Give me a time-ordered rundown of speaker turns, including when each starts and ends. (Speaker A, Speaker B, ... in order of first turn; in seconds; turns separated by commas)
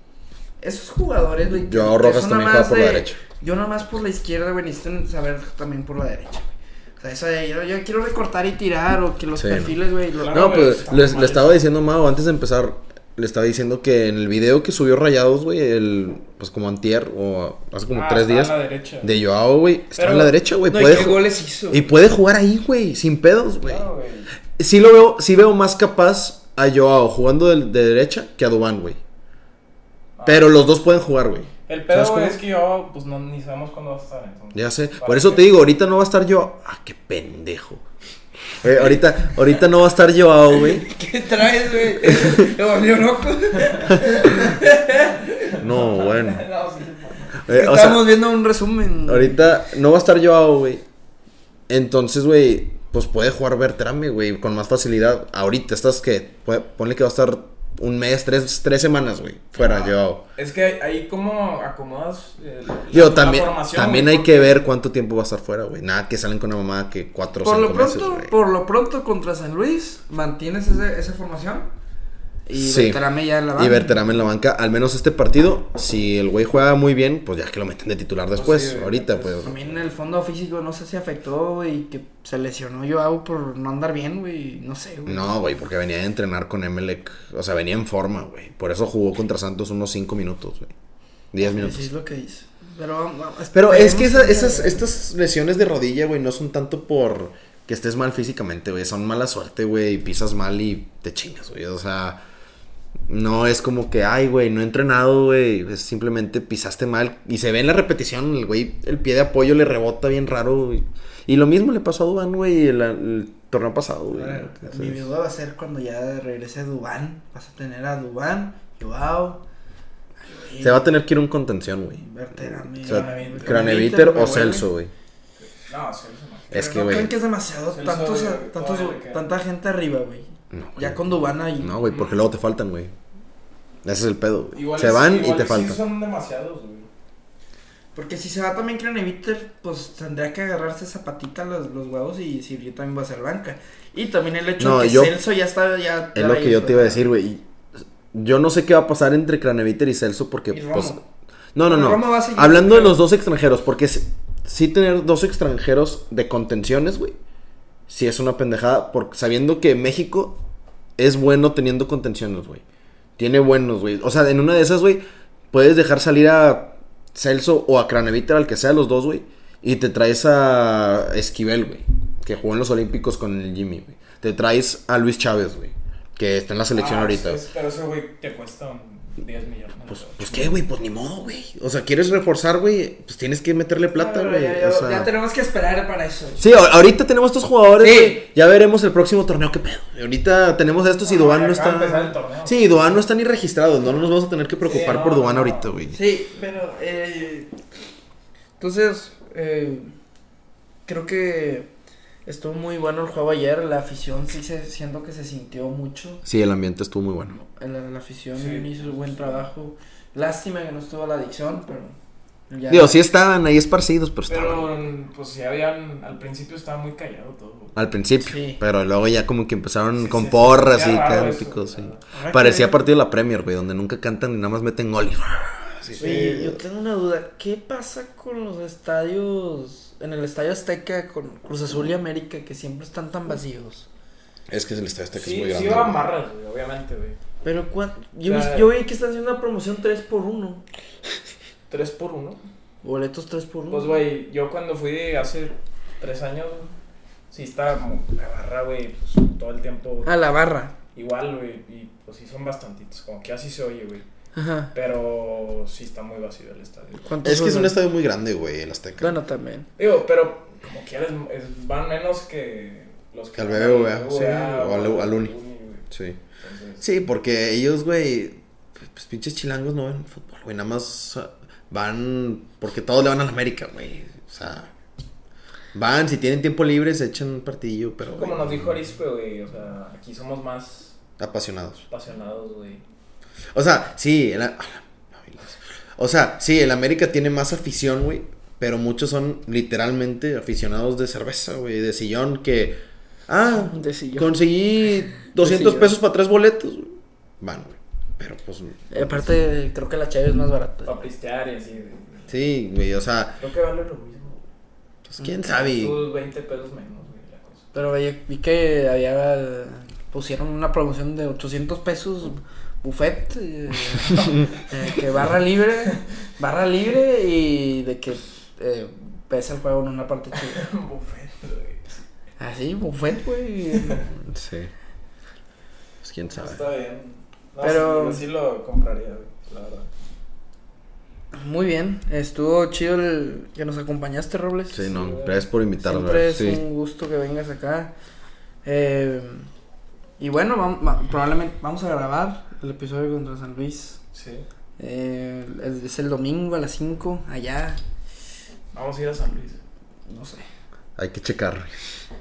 Speaker A: 0.6-10.4, Speaker B: 1.6-3.2, Speaker B: 9.4-9.8, Speaker C: 10.2-11.6, Speaker B: 10.3-23.9, Speaker C: 17.9-19.1, Speaker C: 19.9-20.3, Speaker A: 20.7-21.9, Speaker C: 23.6-24.3, Speaker B: 24.6-29.0, Speaker C: 30.2-30.6, Speaker B: 30.2-32.4, Speaker C: 31.7-35.5, Speaker B: 34.5-37.8, Speaker B: 38.6-40.9, Speaker A: 40.5-45.2, Speaker B: 42.1-42.5, Speaker C: 45.3-47.4, Speaker B: 45.6-46.4, Speaker B: 47.3-48.2, Speaker A: 47.5-49.6, Speaker B: 49.0-50.8, Speaker B: 51.7-60.2, Speaker C: 59.6-64.6, Speaker B: 62.9-68.3, Speaker A: 67.4-71.7, Speaker A: 72.5-74.0, Speaker B: 72.5-79.5, Speaker C: 78.3-79.9, Speaker A: 79.4-85.3, Speaker B: 85.0-90.7, Speaker B: 91.3-91.9, Speaker A: 91.4-94.8, Speaker B: 93.5-102.2, Speaker B: 103.1-115.0, Speaker A: 114.1-119.4, Speaker A: 120.2-121.0, Speaker B: 120.6-124.9, Speaker A: 122.0-124.7, Speaker C: 122.8-123.8, Speaker C: 125.5-126.6, Speaker B: 126.5-127.1, Speaker A: 126.5-131.8, Speaker C: 127.7-129.3, Speaker B: 130.5-132.9, Speaker C: 131.8-132.2, Speaker B: 133.8-135.8, Speaker C: 134.5-136.9, Speaker A: 137.9-147.0, Speaker B: 144.6-145.2, Speaker B: 146.1-147.4, Speaker B: 148.1-157.1, Speaker A: 150.5-151.0, Speaker A: 151.6-153.0, Speaker B: 157.9-160.4, Speaker B: 161.0-162.6, Speaker B: 163.2-177.4, Speaker C: 176.7-180.6, Speaker B: 179.9-185.1, Speaker A: 183.9-186.5, Speaker B: 186.4-196.0, Speaker A: 187.8-188.2, Speaker C: 191.0-192.8, Speaker C: 194.6-195.7, Speaker A: 195.9-197.5, Speaker A: 198.6-199.9, Speaker A: 200.8-201.7, Speaker A: 202.2-206.2, Speaker B: 206.2-207.4, Speaker A: 207.3-211.9, Speaker C: 208.3-209.4, Speaker A: 212.5-213.0, Speaker B: 212.7-214.7, Speaker C: 214.3-217.8, Speaker B: 217.8-226.6, Speaker A: 218.2-218.6, Speaker C: 219.9-222.0, Speaker A: 222.1-222.8, Speaker C: 225.9-226.3, Speaker A: 226.0-233.9, Speaker B: 234.5-236.1, Speaker C: 235.1-237.2, Speaker A: 237.4-240.6, Speaker C: 238.2-238.7, Speaker C: 241.7-242.4, Speaker A: 242.8-244.0, Speaker C: 243.7-246.7, Speaker C: 247.3-250.1, Speaker A: 250.0-250.7, Speaker C: 250.9-254.1, Speaker A: 254.3-254.7, Speaker C: 254.7-257.1, Speaker A: 257.0-257.8, Speaker B: 257.2-259.1, Speaker A: 259.0-259.7, Speaker C: 259.8-265.9, Speaker B: 263.4-265.3, Speaker B: 265.9-266.2, Speaker C: 266.4-266.8, Speaker B: 266.8-274.7, Speaker B: 275.7-278.6, Speaker C: 278.1-280.9, Speaker B: 281.2-281.9, Speaker C: 281.9-282.8, Speaker B: 283.5-299.3, Speaker A: 293.5-294.4, Speaker A: 295.4-295.9, Speaker A: 298.9-301.0, Speaker C: 300.8-302.4, Speaker B: 302.3-303.4, Speaker C: 303.4-304.4, Speaker B: 305.1-306.0, Speaker C: 305.4-307.7, Speaker A: 307.7-320.6, Speaker C: 320.4-321.8, Speaker A: 322.4-324.1, Speaker C: 323.8-324.0, Speaker B: 324.2-324.7, Speaker B: 326.0-326.6, Speaker C: 326.3-329.9, Speaker A: 327.6-328.2, Speaker A: 331.3-334.9, Speaker B: 334.7-336.6, Speaker C: 334.8-335.4, Speaker A: 335.8-337.9, Speaker A: 338.6-339.5, Speaker A: 340.2-344.0, Speaker C: 344.1-344.4, Speaker A: 344.8-347.8, Speaker C: 348.7-349.6, Speaker A: 350.1-350.4, Speaker B: 350.9-351.7